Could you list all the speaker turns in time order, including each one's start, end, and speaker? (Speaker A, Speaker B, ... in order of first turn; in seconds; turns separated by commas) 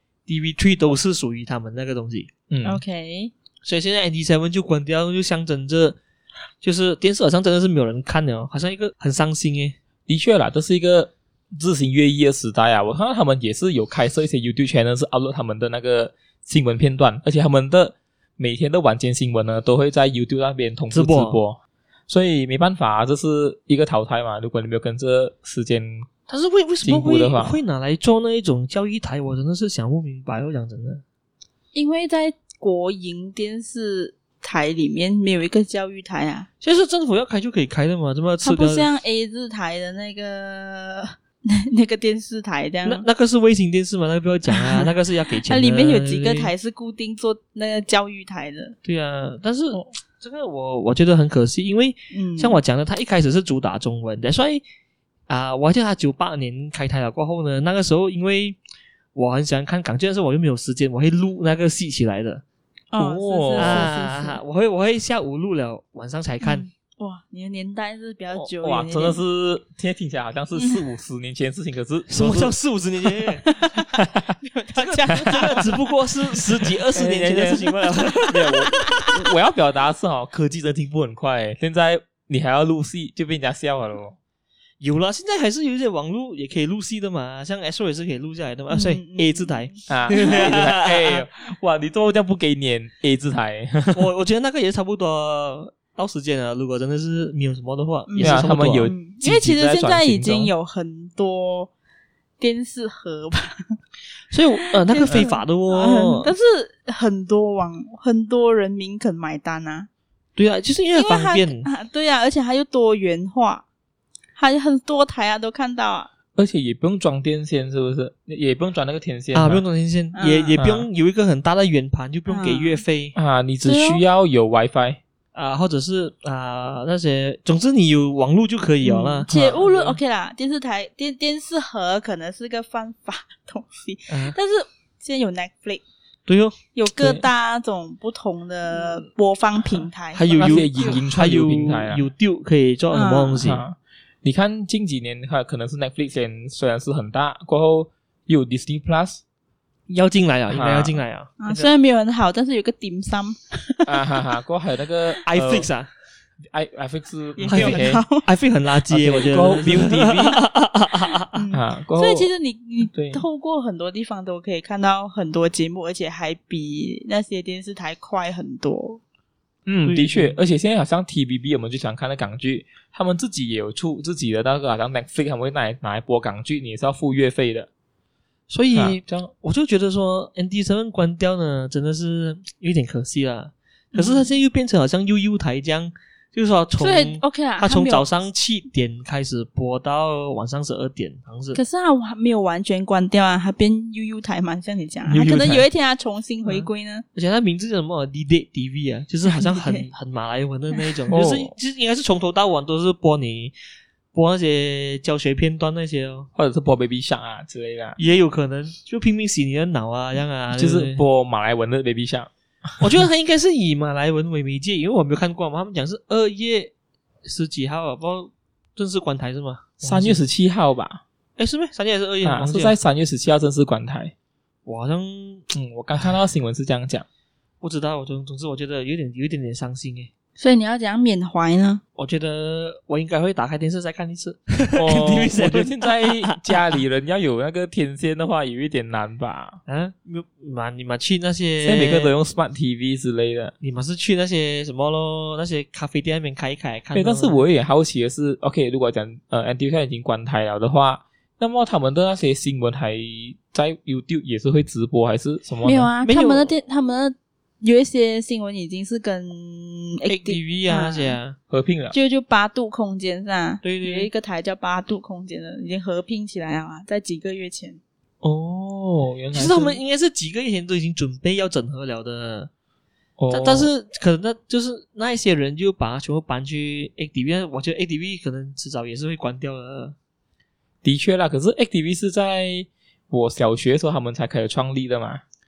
Speaker A: 0.3-2.3, Speaker B: 2.5-2.8, Speaker C: 2.6-3.3, Speaker A: 3.6-6.0, Speaker A: 6.6-9.8, Speaker B: 10.1-26.1, Speaker A: 20.9-21.4, Speaker A: 26.3-31.0, Speaker B: 26.8-27.6, Speaker C: 31.7-36.5, Speaker A: 36.6-38.9, Speaker C: 38.4-43.1, Speaker A: 42.9-46.5, Speaker C: 44.5-48.8, Speaker A: 48.8-54.6, Speaker C: 52.1-52.6, Speaker A: 55.3-58.6, Speaker A: 59.1-62.4, Speaker C: 62.9-64.4, Speaker B: 63.0-63.9, Speaker A: 63.5-66.7, Speaker C: 66.4-69.2, Speaker B: 68.3-72.5, Speaker C: 70.5-70.8, Speaker A: 72.1-73.5, Speaker C: 73.4-75.8, Speaker B: 74.0-74.3, Speaker A: 74.8-78.5, Speaker B: 75.3-75.6, Speaker B: 76.6-84.2, Speaker C: 78.1-79.1, Speaker A: 84.8-91.2, Speaker C: 88.7-90.5, Speaker B: 89.9-94.0, Speaker A: 93.9-98.9, Speaker C: 98.1-101.7, Speaker B: 98.2-100.5, Speaker C: 102.4-103.8, Speaker A: 104.3-106.3, Speaker C: 104.6-109.9, Speaker A: 110.4-111.7, Speaker C: 110.9-113.6, Speaker C: 114.4-116.1, Speaker B: 116.3-119.6, Speaker A: 119.3-123.2, Speaker C: 120.1-120.6, Speaker B: 120.6-120.9, Speaker C: 122.3-122.8, Speaker B: 123.1-125.0, Speaker C: 123.6-124.0, Speaker A: 125.3-129.3, Speaker C: 128.8-135.8, Speaker B: 129.3-130.0, Speaker A: 134.1-134.4, Speaker A: 136.3-136.6, Speaker C: 136.7-140.9, Speaker A: 140.1-143.6, Speaker B: 140.3-142.1, Speaker C: 142.9-143.5, Speaker B: 143.4-149.2, Speaker A: 149.9-151.7, Speaker B: 150.5-151.0, Speaker C: 151.4-154.1, Speaker B: 153.9-155.7, Speaker A: 155.3-155.9, Speaker B: 156.5-158.0, Speaker C: 157.4-158.3, Speaker A: 157.4-161.4, Speaker B: 158.9-160.4, Speaker C: 161.3-169.0, Speaker B: 161.5-162.3, Speaker B: 162.9-163.2, Speaker B: 169.7-177.7, Speaker A: 169.8-170.4, Speaker A: 178.5-191.6, Speaker B: 178.7-179.3, Speaker C: 183.9-184.3, Speaker C: 186.8-188.1, Speaker C: 191.5-197.0, Speaker B: 195.1-195.6, Speaker A: 196.4-203.5, Speaker C: 199.3-199.9, Speaker B: 201.1-201.5, Speaker A: 204.1-206.3, Speaker B: 206.3-208.0, Speaker A: 208.0-211.0, Speaker B: 210.5-212.3, Speaker A: 212.8-216.7, Speaker A: 217.2-220.2, Speaker B: 219.8-221.0, Speaker A: 221.4-222.8, Speaker B: 222.2-224.1, Speaker A: 224.7-225.4, Speaker B: 225.5-227.1, Speaker A: 227.6-230.1, Speaker C: 230.4-231.8, Speaker A: 232.0-236.6, Speaker B: 234.8-239.6, Speaker A: 239.7-242.1, Speaker B: 241.6-243.5, Speaker A: 243.6-247.4, Speaker B: 246.9-255.9, Speaker C: 255.6-261.2, Speaker A: 256.0-256.6, Speaker A: 260.1-261.4, Speaker B: 261.5-261.9, Speaker C: 261.9-267.8, Speaker A: 263.6-264.1, Speaker A: 268.2-272.5, Speaker B: 269.1-269.8, Speaker B: 273.2-273.7, Speaker A: 273.3-279.9, Speaker B: 280.8-285.2